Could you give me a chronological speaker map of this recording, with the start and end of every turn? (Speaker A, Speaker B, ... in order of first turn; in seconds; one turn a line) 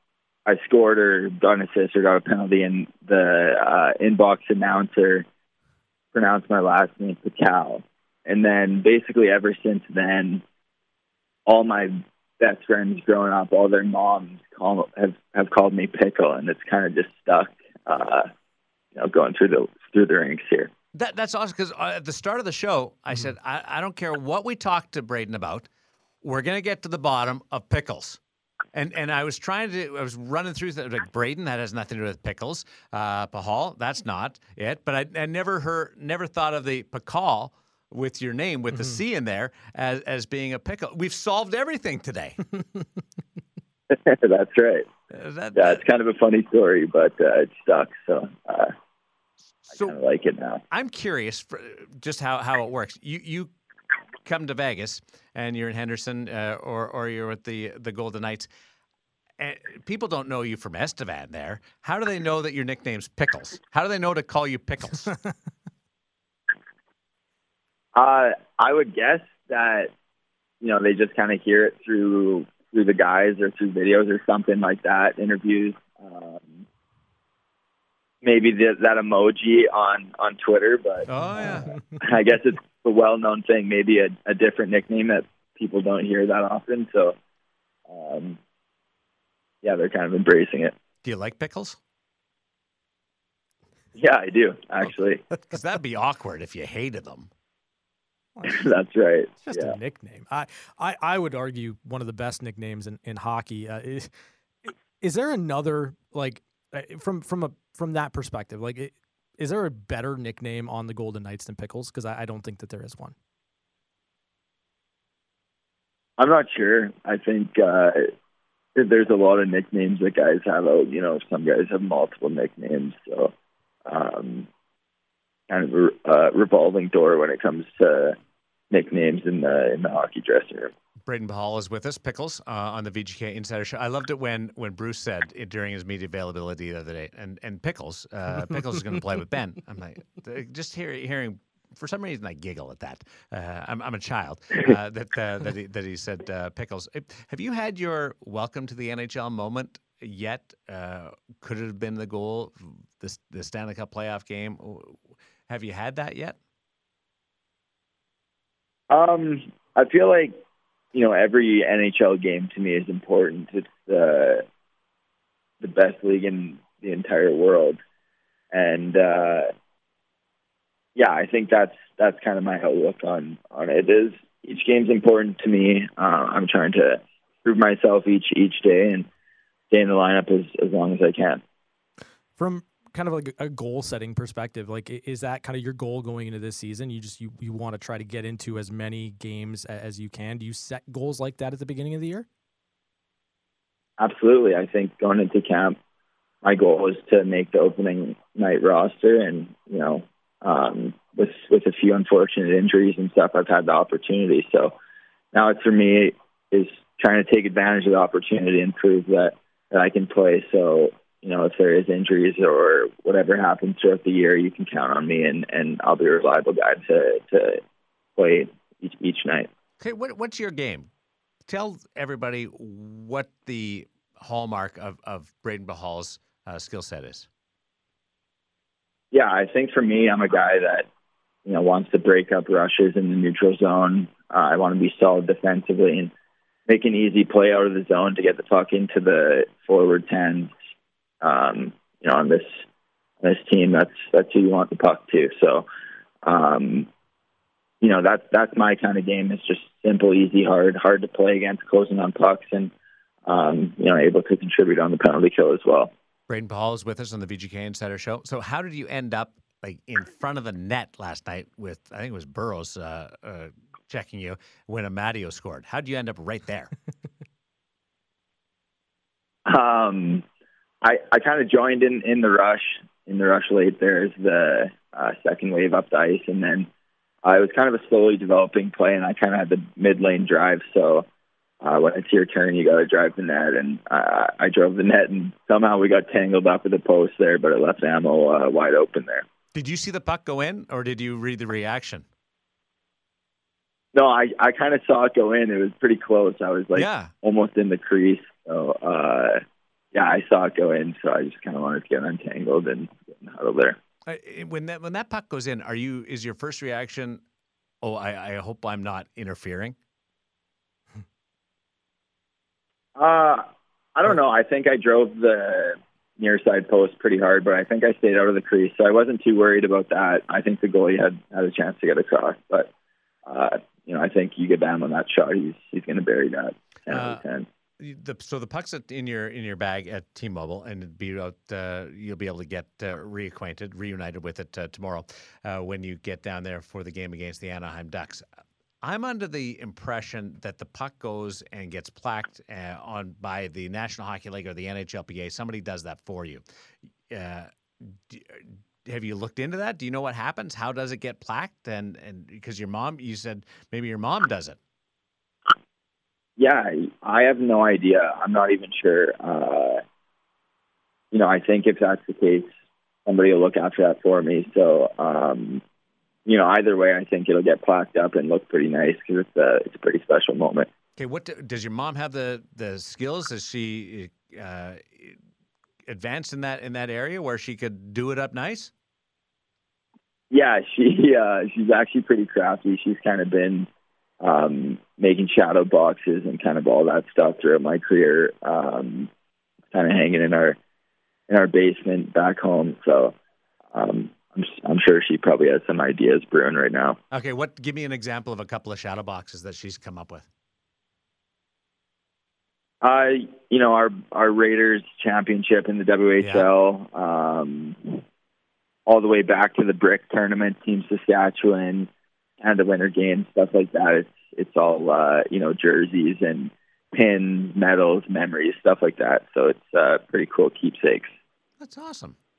Speaker A: 0.5-5.2
Speaker A: 6.1-10.4
Speaker A: 11.5-18.3
Speaker A: 18.9-20.7
Speaker B: 20.9-25.7
Speaker B: 26.2-28.2
Speaker B: 28.7-42.4
Speaker C: 38.7-39.0
Speaker A: 43.9-44.9
Speaker B: 45.1-45.8
Speaker A: 45.5-48.7
Speaker B: 49.6-49.9
Speaker A: 49.8-50.6
Speaker B: 50.7-53.5
Speaker B: 54.2-58.5
Speaker B: 59.4-65.1
Speaker A: 67.9-69.9
Speaker A: 70.6-76.6
Speaker A: 78.2-87.2
Speaker B: 81.1-81.8
Speaker A: 87.9-88.4
Speaker A: 89.6-90.7
Speaker B: 91.0-91.8
Speaker A: 94.0-95.2
Speaker B: 95.4-97.3
Speaker C: 98.3-98.6
Speaker A: 98.5-99.8
Speaker C: 99.4-104.1
Speaker C: 104.6-113.1
Speaker A: 116.2-118.1
Speaker A: 118.8-123.3
Speaker A: 123.9-124.5
Speaker A: 125.5-128.2
Speaker A: 128.7-130.7
Speaker B: 131.1-156.4
Speaker A: 158.9-160.4
Speaker A: 160.9-164.4
Speaker A: 165.6-167.8
Speaker A: 168.5-169.5
Speaker A: 170.9-179.1
Speaker A: 179.7-181.4
Speaker C: 182.4-192.2
Speaker A: 194.0-195.8
Speaker A: 196.4-204.7
Speaker A: 205.3-217.6
Speaker A: 218.2-219.5
Speaker B: 219.8-220.9
Speaker B: 221.5-227.3
Speaker A: 229.1-230.9
Speaker A: 231.4-236.1
Speaker A: 236.7-240.5
Speaker A: 241.2-242.6
Speaker A: 243.2-245.7
Speaker A: 246.2-246.9
Speaker A: 247.8-252.7
Speaker A: 253.2-255.9
Speaker B: 256.3-266.7
Speaker A: 269.4-270.2
Speaker A: 270.8-276.7
Speaker A: 277.2-281.1
Speaker A: 281.6-289.2
Speaker B: 289.5-292.0
Speaker A: 293.9-299.4
Speaker B: 296.8-297.1
Speaker A: 299.9-303.8
Speaker B: 304.1-307.2
Speaker B: 307.8-309.8
Speaker A: 312.9-322.7
Speaker A: 323.2-327.4
Speaker B: 326.9-327.2
Speaker B: 327.8-338.2
Speaker B: 338.8-346.4
Speaker B: 347.1-354.6
Speaker A: 356.4-359.8
Speaker A: 361.1-362.5
Speaker A: 363.1-365.6
Speaker A: 366.2-370.7
Speaker B: 371.0-375.1
Speaker B: 375.9-378.7
Speaker A: 380.3-383.7
Speaker A: 384.2-389.1
Speaker A: 389.7-390.6
Speaker A: 391.3-393.1
Speaker A: 393.7-397.0
Speaker B: 397.1-400.3
Speaker A: 402.8-408.0
Speaker B: 406.2-406.5
Speaker A: 408.9-411.9
Speaker A: 412.4-421.1
Speaker B: 421.6-422.1